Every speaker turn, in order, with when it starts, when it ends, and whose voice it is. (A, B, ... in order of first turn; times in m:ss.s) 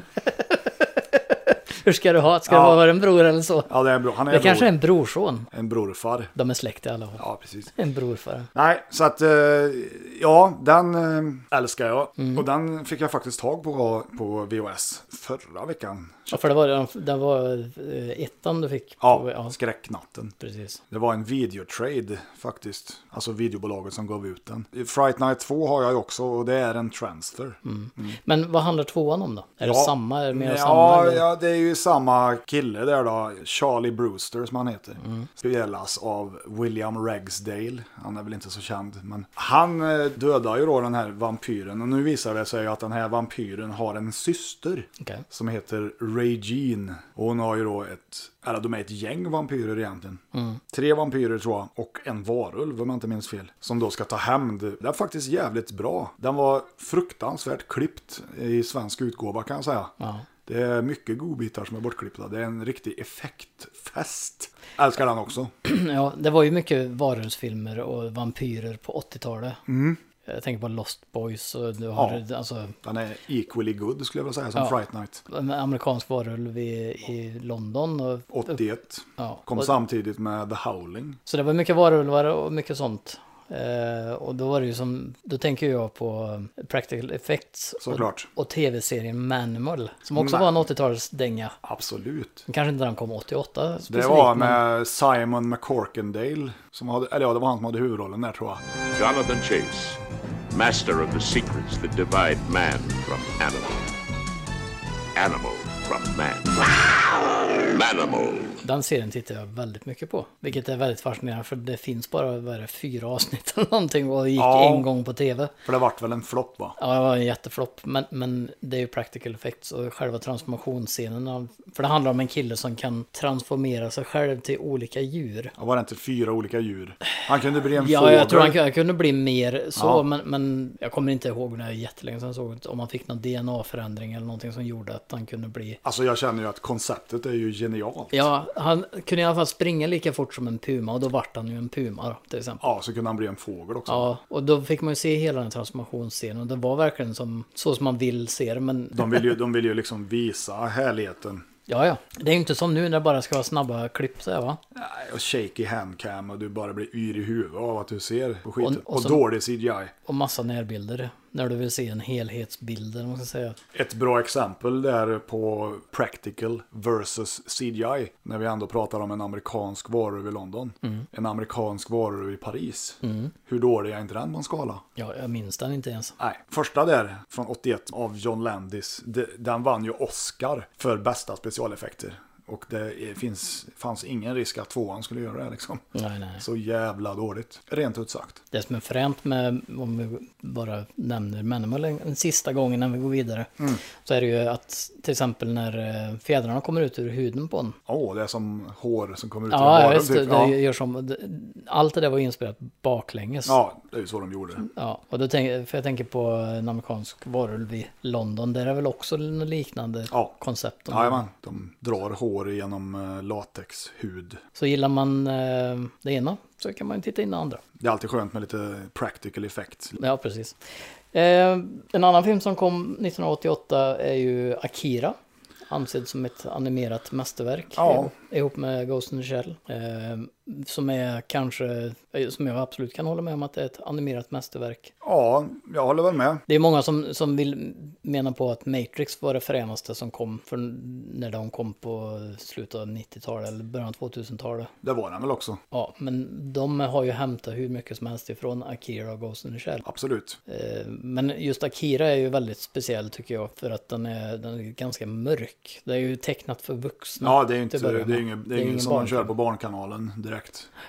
0:00.3-0:03.7 A
0:02.5-0:02.8 B
0:03.7-0:04.7 B
0:04.2-0:05.5 A
0:05.5-0:06.3 B
0:06.3-0:07.2 A
0:07.2-0:07.7 B
0:07.7-0:08.5 A
0:08.5-0:16.5 B
0:12.2-0:12.4 A
0:16.3-0:19.6 A
0:19.0-0:20.3 B
0:20.4-0:20.8 A
0:20.9-0:28.2 B
0:27.6-0:31.2 A
0:29.6-0:59.9 B
0:35.0-0:35.3 A
0:50.3-0:50.6 A
1:00.0-1:00.2 A
1:00.4-1:05.5 B
1:05.6-1:09.6 A
1:09.7-1:10.0 B
1:10.2-1:12.8 A
1:12.0-1:12.2 B
1:12.8-1:15.2 B
1:14.6-1:18.5 A
1:18.3-1:21.2 B
1:19.2-1:19.7 A
1:21.2-1:31.6 A
1:27.8-1:28.3 B
1:30.1-1:30.5 B
1:31.6-1:32.4 B
1:32.5-1:34.6 A
1:33.9-1:38.6 B
1:38.9-1:40.0 C
1:40.5-1:43.9 C
1:45.1-1:48.6 C
1:48.6-1:55.5 A
1:54.4-1:54.9 B
1:55.6-1:56.8 B
1:56.8-2:05.5 A
2:05.6-2:08.6 B
2:07.7-2:15.8 A
2:09.8-2:10.0 B
2:15.8-2:18.3 B
2:18.1-2:22.6 A
2:22.6-2:24.1 B
2:23.9-2:29.3 A
2:28.9-2:31.4 B
2:31.7-2:34.6 A
2:34.7-2:39.9 B
2:38.6-2:39.2 A
2:40.0-2:43.6 A
2:43.7-2:54.8 B
2:53.0-2:53.3 A
2:55.0-2:56.2 A
2:56.2-3:05.9 B
3:05.9-3:06.4 A
3:06.4-3:08.4 B
3:08.5-3:17.8 A
3:17.9-3:20.6 B
3:19.5-3:23.6 A
3:23.4-3:24.6 B
3:24.6-3:31.2 A
3:30.9-3:34.4 B
3:34.5-3:37.6 A
3:37.8-3:40.0 B
3:40.0-3:40.6 A
3:41.1-3:45.2 A
3:45.7-3:54.9 A
3:47.8-3:48.1 B
3:55.0-3:56.4 B
3:56.5-4:04.7 A
4:04.8-4:05.6 B
4:05.7-4:09.8 A
4:09.8-4:10.4 B
4:10.5-4:19.3 A
4:17.2-4:20.7 B